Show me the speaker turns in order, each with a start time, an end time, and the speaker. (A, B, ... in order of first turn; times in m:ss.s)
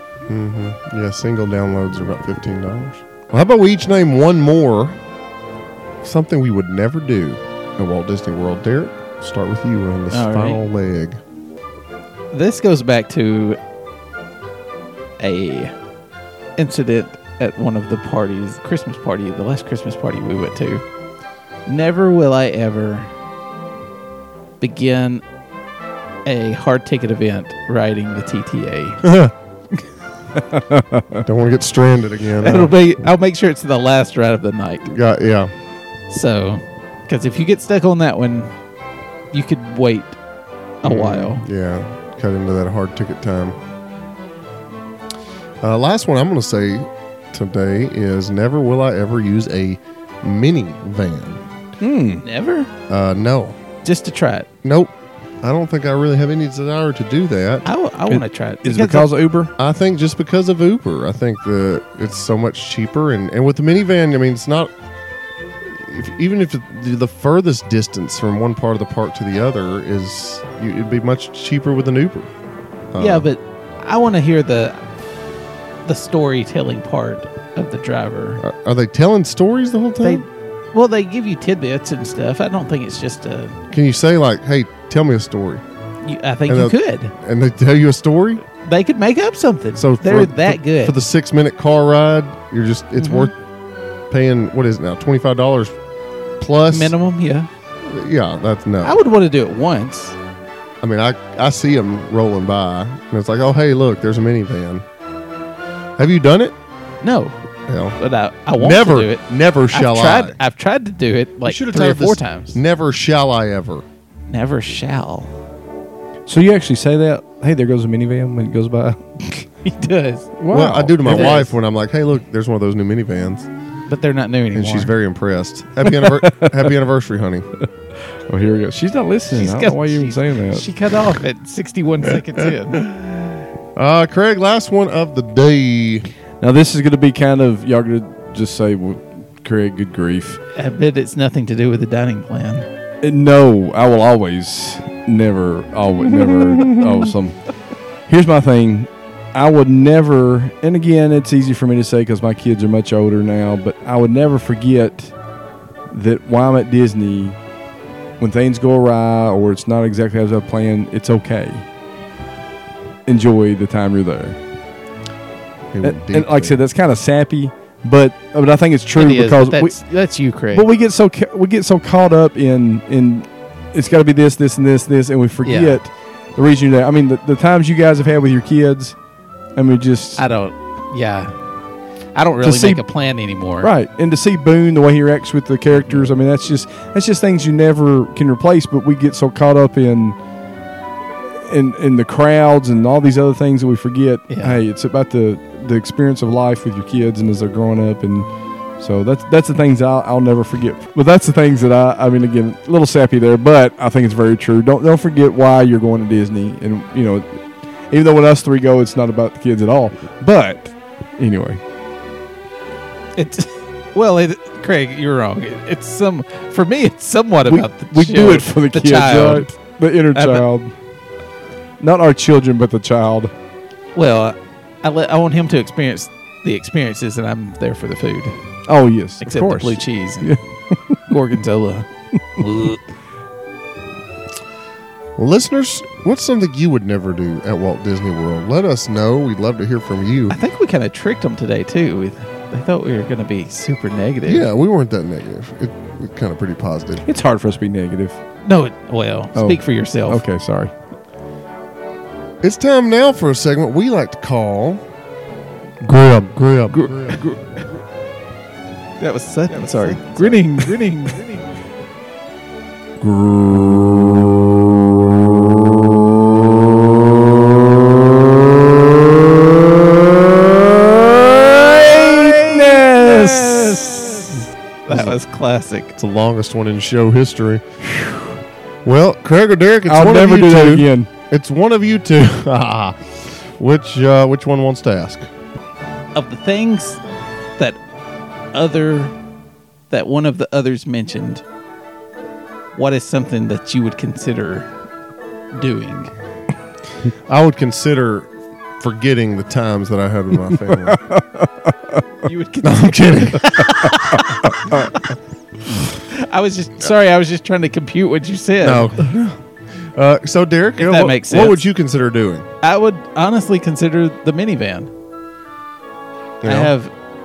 0:00.3-0:05.0 A
0:06.0-0:11.2 A
0:10.1-0:10.6 B
0:12.3-0:13.6 B
0:15.2-0:15.7 B
0:16.6-0:20.8 B
0:21.6-0:23.1 B
0:24.6-0:25.2 B
0:26.2-0:29.0 B
0:29.0-0:29.3 A
0:30.4-0:31.2 C
0:31.2-0:32.7 A
0:32.4-0:34.9 B
0:34.9-0:35.5 A
0:36.1-0:38.5 B
0:39.3-0:40.2 B
0:40.8-0:41.4 B
0:40.8-0:43.6 A
0:45.6-0:51.4 A
0:51.8-0:52.2 C
0:52.2-0:52.7 B
0:52.9-0:53.6 A
0:53.8-0:54.5 B
0:54.6-0:57.6 A
0:57.6-0:59.1 B
0:58.1-0:59.5 C
0:59.6-1:04.7 A
1:05.7-1:12.3 A
1:12.9-1:13.3 A
1:13.0-1:14.8 B
1:15.8-1:18.4 B
1:18.4-1:20.2 A
1:20.0-1:23.6 B
1:23.7-1:25.6 A
1:26.0-1:27.1 B
1:26.5-1:28.4 A
1:28.6-1:30.9 B
1:29.8-1:33.3 A
1:33.0-1:33.3 B
1:34.1-1:35.7 A
1:36.4-1:36.9 A
1:36.7-1:37.5 B
1:37.8-1:39.0 A
1:38.8-1:40.2 B
1:40.8-1:44.8 A
1:46.0-1:46.5 A
1:47.0-1:47.3 B
1:47.7-1:48.0 A
1:48.0-1:52.6 B
1:48.6-1:50.4 A
1:51.4-1:53.8 A
1:54.3-1:55.3 B
1:56.2-1:59.2 C
1:59.3-2:00.3 B
2:00.4-2:01.4 C
2:00.5-2:03.5 A
2:01.0-2:01.5 B
2:03.9-2:04.9 B
2:04.5-2:07.5 A
2:05.8-2:06.7 C
2:08.1-2:10.6 C
2:09.3-2:12.8 B
2:12.7-2:13.0 A
2:13.8-2:16.1 A
2:16.4-2:20.4 C
2:20.5-2:22.7 B
2:23.0-2:27.4 C
2:28.1-2:35.1 C
2:35.9-2:37.4 C
2:38.2-2:41.6 C
2:43.0-2:44.4 C
2:45.7-2:46.6 A
2:45.8-2:49.8 C
2:48.9-2:50.6 B
2:50.5-2:59.0 C
2:55.4-2:55.8 B
2:59.6-3:00.2 C
3:00.2-3:01.4 B
3:02.1-3:03.7 B
3:02.4-3:02.8 C
3:03.6-3:10.2 C
3:11.4-3:18.3 C
3:14.3-3:14.6 B
3:18.8-3:27.4 C
3:27.9-3:31.6 C
3:33.2-3:39.5 B
3:37.4-3:40.7 C
3:40.1-3:40.4 B
3:41.8-3:43.3 C
3:43.9-3:48.4 B
3:48.6-3:50.4 C
3:49.2-3:50.4 B
3:51.1-3:52.8 B
3:55.2-4:00.4 A
4:00.3-4:04.4 B
4:04.2-4:07.0 A
4:07.0-4:08.2 C
4:08.4-4:10.2 B
4:09.3-4:10.7 C
4:12.4-4:14.8 A
4:15.8-4:17.3 A
4:16.7-4:17.3 B
4:19.0-4:21.4 B
4:23.0-4:34.4 C
4:32.1-4:35.9 B
4:36.0-4:37.6 A
4:38.8-4:45.3 A
4:39.9-4:41.1 C
4:46.1-4:47.0 B
4:48.5-4:49.1 B
4:49.9-4:51.4 B
4:52.7-4:54.7 B
4:55.5-4:56.1 B
4:57.3-5:01.0 A
5:00.5-5:02.0 C
5:02.2-5:05.1 B
5:02.6-5:03.8 A
5:06.0-5:09.0 B
5:08.6-5:09.4 A
5:09.9-5:12.5 A
5:10.8-5:11.6 B
5:12.6-5:14.9 B
5:16.4-5:16.7 A
5:16.4-5:16.9 B